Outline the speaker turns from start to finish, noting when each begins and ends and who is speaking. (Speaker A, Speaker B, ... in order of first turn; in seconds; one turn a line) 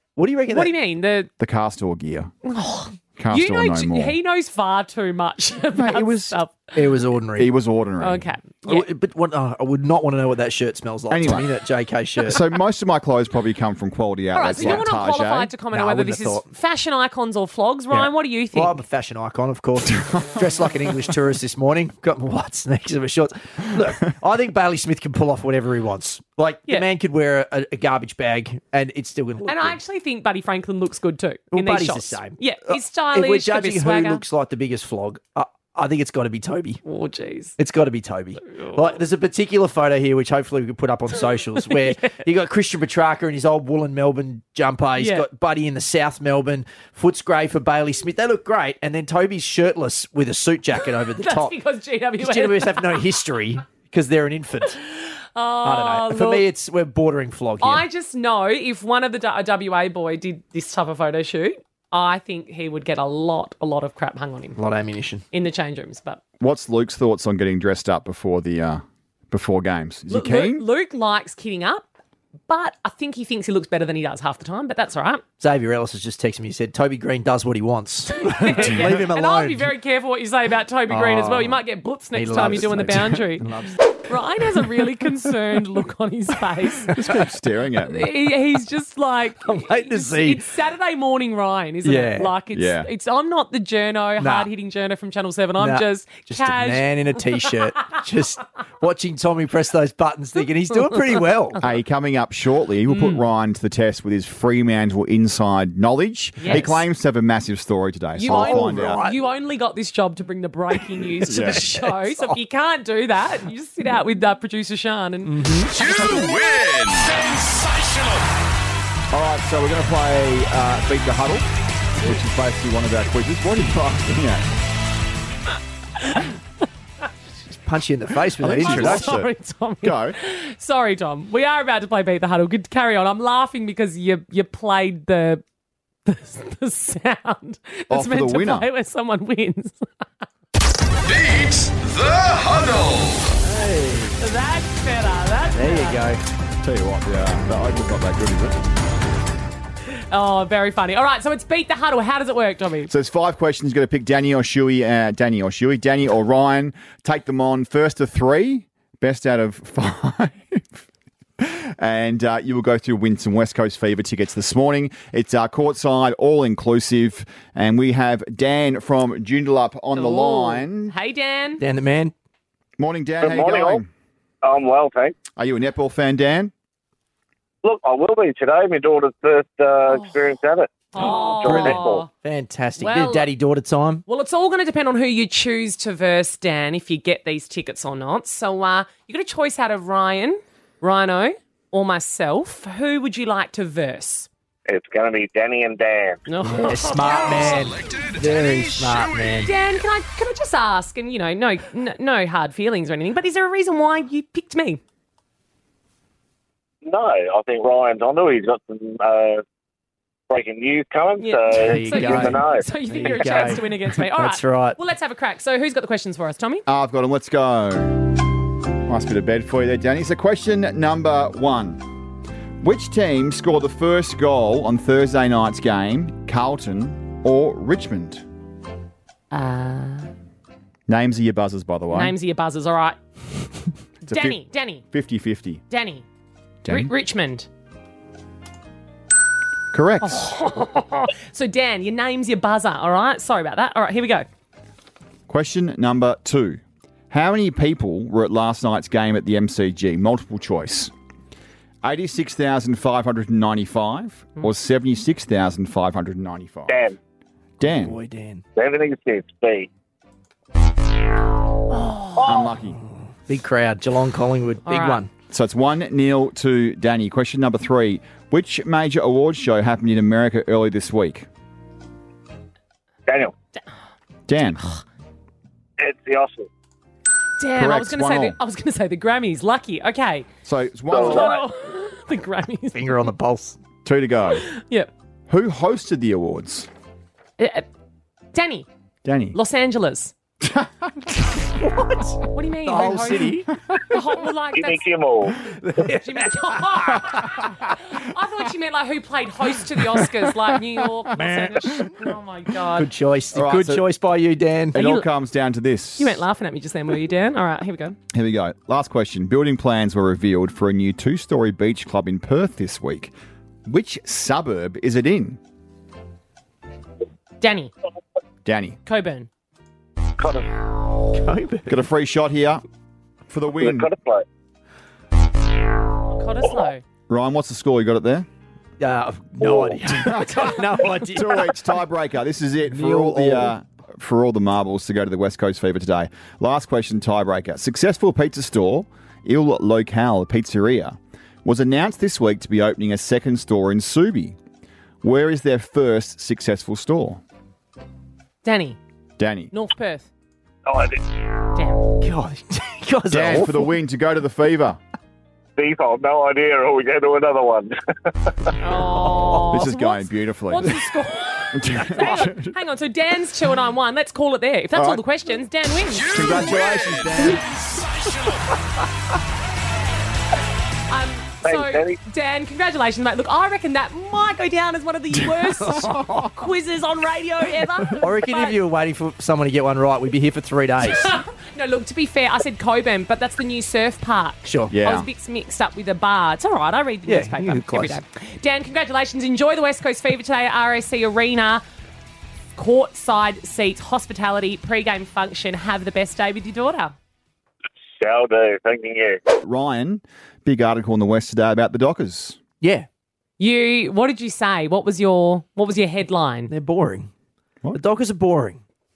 Speaker A: 0.2-0.7
Speaker B: 0.5-1.3
Speaker C: 1.4-2.3
Speaker B: 2.4-6.7
Speaker C: 3.2-4.2
Speaker C: 5.7-6.4
Speaker A: 6.8-7.5
Speaker C: 7.4-8.3
Speaker B: 8.0-8.9
Speaker A: 8.7-12.4
Speaker C: 11.1-11.5
Speaker C: 12.2-15.5
Speaker B: 14.3-18.8
Speaker A: 14.6-14.9
Speaker A: 15.7-16.5
Speaker A: 17.9-29.8
Speaker B: 29.5-34.2
Speaker A: 31.5-36.8
Speaker B: 36.9-37.6
Speaker A: 37.6-51.6
Speaker B: 38.5-38.8
Speaker B: 41.7-42.1
Speaker B: 45.0-45.3
Speaker B: 51.2-53.0
Speaker A: 52.2-54.8
Speaker B: 55.4-56.5
Speaker A: 55.6-57.9
Speaker B: 57.6-64.6
Speaker A: 64.6-65.2
Speaker B: 65.3-66.2
Speaker C: 66.4-70.6
Speaker B: 70.1-71.9
Speaker B: 72.5-75.2
Speaker A: 75.4-79.7
Speaker B: 78.2-83.5
Speaker A: 80.9-81.6
Speaker A: 82.1-83.8
Speaker B: 84.0-87.0
Speaker C: 86.9-88.1
Speaker B: 87.9-96.9
Speaker A: 89.5-90.4
Speaker A: 91.8-92.3
Speaker C: 92.5-92.9
Speaker A: 94.2-94.5
Speaker A: 95.6-101.6
Speaker C: 101.6-109.0
Speaker B: 102.9-103.2
Speaker B: 106.4-106.8
Speaker B: 108.2-115.4
Speaker A: 108.3-109.2
Speaker C: 111.3-111.7
Speaker A: 111.3-112.4
Speaker A: 115.3-115.8
Speaker D: 115.7-118.3
Speaker C: 119.1-121.5
Speaker C: 122.0-124.5
Speaker A: 127.5-129.1
Speaker C: 128.4-130.2
Speaker B: 128.6-135.4
Speaker B: 136.1-140.1
Speaker C: 137.9-138.7
Speaker D: 141.0-143.4
Speaker A: 143.4-144.2
Speaker B: 144.2-146.1
Speaker A: 145.6-146.2
Speaker C: 146.6-148.6
Speaker B: 150.1-152.9
Speaker C: 152.9-160.8
Speaker C: 161.4-170.9
Speaker B: 169.9-171.6
Speaker A: 171.6-172.1
Speaker C: 172.8-173.9
Speaker E: 173.2-173.8
Speaker E: 174.4-175.2
Speaker C: 175.4-176.5
Speaker E: 177.6-182.1
Speaker B: 180.9-182.1
Speaker A: 181.4-184.0
Speaker B: 182.8-183.3
Speaker B: 184.1-194.3
Speaker E: 194.7-196.2
Speaker B: 196.3-197.6
Speaker A: 196.5-199.5
Speaker D: 197.1-199.5
Speaker B: 199.4-204.8
Speaker E: 206.8-209.4
Speaker E: 210.3-212.7
Speaker B: 211.2-216.6
Speaker A: 211.5-214.8
Speaker C: 216.7-218.2
Speaker C: 218.9-221.8
Speaker C: 222.6-228.2
Speaker B: 229.3-230.1
Speaker C: 230.9-232.2
Speaker B: 231.9-233.0
Speaker B: 234.0-234.8
Speaker C: 234.1-235.6
Speaker B: 235.7-236.1
Speaker C: 236.6-236.9
Speaker B: 236.7-237.5
Speaker C: 239.7-240.3
Speaker B: 240.0-244.3
Speaker C: 245.3-250.9
Speaker C: 251.8-256.8
Speaker E: 256.7-257.0
Speaker C: 257.6-258.0
Speaker A: 257.6-258.4
Speaker E: 258.6-259.7
Speaker B: 261.7-262.3
Speaker E: 262.2-262.5
Speaker C: 262.2-262.8
Speaker A: 263.3-265.1
Speaker B: 264.7-265.0
Speaker C: 265.3-271.3
Speaker E: 273.1-273.4
Speaker C: 274.3-274.7
Speaker E: 275.8-276.5
Speaker B: 277.4-280.3
Speaker C: 277.6-278.4
Speaker C: 280.4-281.4
Speaker E: 280.9-281.4
Speaker B: 280.9-283.0
Speaker A: 282.7-283.6
Speaker C: 283.9-284.5
Speaker B: 284.4-284.9
Speaker C: 285.3-286.7
Speaker B: 287.4-287.7
Speaker B: 288.3-288.7
Speaker C: 289.1-289.4
Speaker B: 289.3-290.1
Speaker C: 290.4-291.3
Speaker A: 291.6-293.5
Speaker B: 292.3-294.9
Speaker E: 294.5-295.4
Speaker A: 295.4-297.6
Speaker B: 296.0-302.9
Speaker A: 301.1-302.1
Speaker A: 302.7-304.8
Speaker C: 303.3-303.8
Speaker C: 304.7-306.2
Speaker B: 304.8-305.1
Speaker B: 306.0-308.0
Speaker C: 308.1-313.1
Speaker C: 313.7-315.4
Speaker B: 317.4-317.7
Speaker C: 318.4-318.8
Speaker B: 318.9-319.3
Speaker E: 320.2-320.5
Speaker A: 321.1-321.8
Speaker C: 321.7-322.6
Speaker C: 323.3-323.9
Speaker E: 323.6-324.2
Speaker B: 326.1-326.8
Speaker C: 327.1-328.3
Speaker A: 328.8-331.6
Speaker E: 329.4-329.8
Speaker C: 330.0-330.5
Speaker B: 330.3-330.6
Speaker C: 331.0-344.4
Speaker A: 332.7-333.5
Speaker C: 345.0-347.2
Speaker B: 348.4-348.8
Speaker C: 349.2-349.5
Speaker B: 349.5-350.1
Speaker E: 350.7-351.0
Speaker B: 351.6-351.8
Speaker A: 352.0-353.8
Speaker C: 353.1-354.8
Speaker E: 355.6-357.8
Speaker B: 358.6-366.1
Speaker A: 359.0-359.6
Speaker C: 359.5-360.7
Speaker C: 361.5-362.6
Speaker C: 364.8-365.0
Speaker D: 365.9-368.5
Speaker C: 366.1-367.6
Speaker B: 370.9-378.6
Speaker E: 371.4-372.0
Speaker A: 375.7-376.1
Speaker A: 378.0-381.2
Speaker B: 380.8-391.6
Speaker A: 384.5-384.7
Speaker C: 384.7-385.1
Speaker A: 387.1-388.0
Speaker B: 392.6-396.9
Speaker E: 398.0-399.2
Speaker C: 399.4-402.4
Speaker A: 402.6-402.9
Speaker B: 403.4-406.5
Speaker A: 406.5-407.1
Speaker A: 407.7-408.6